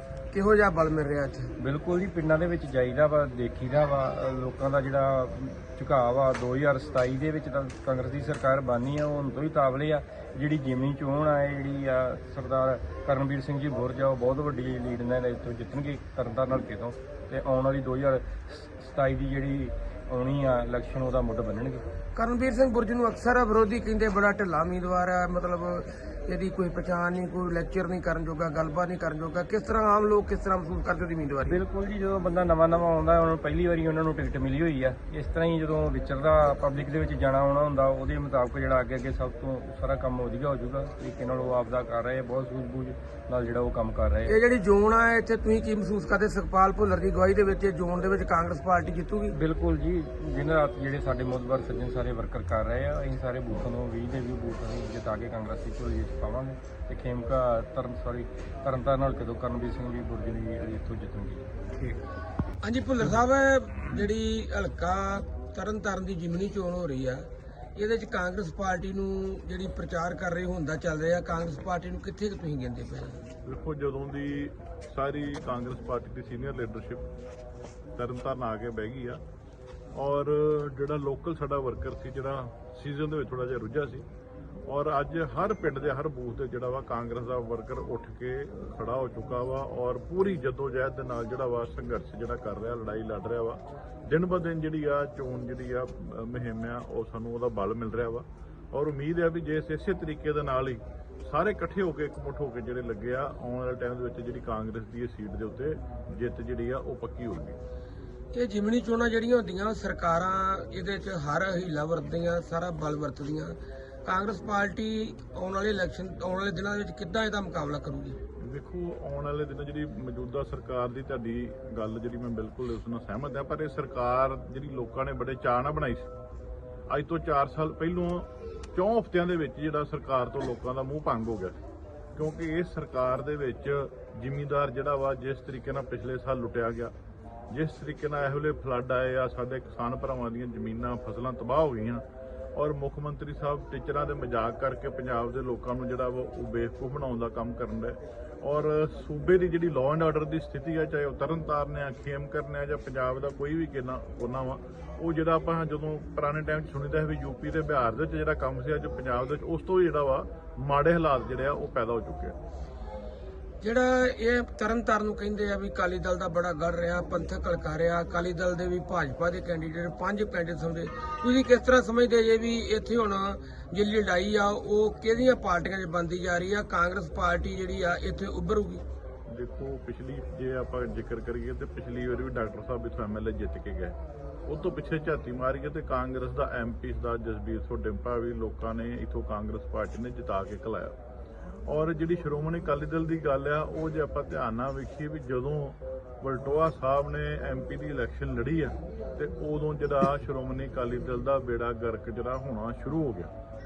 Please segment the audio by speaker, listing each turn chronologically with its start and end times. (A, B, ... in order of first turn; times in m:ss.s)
0:00.3-0:01.5 A
0:01.6-0:21.8 B
0:22.2-0:31.6 A
0:31.4-0:44.4 B
0:44.3-0:49.4 A
0:49.3-1:01.5 B
1:02.6-1:13.3 A
1:13.4-1:17.0 C
1:18.0-1:19.2 C
1:19.9-1:24.1 C
1:24.7-1:47.6 C
1:48.3-1:58.2 A
1:58.4-2:06.1 C
2:06.9-2:11.6 C
2:12.2-2:16.9 C
2:17.5-2:22.0 C
2:22.6-2:42.4 C
2:43.6-2:58.8 A
2:59.3-3:11.0 C
3:11.7-3:23.3 C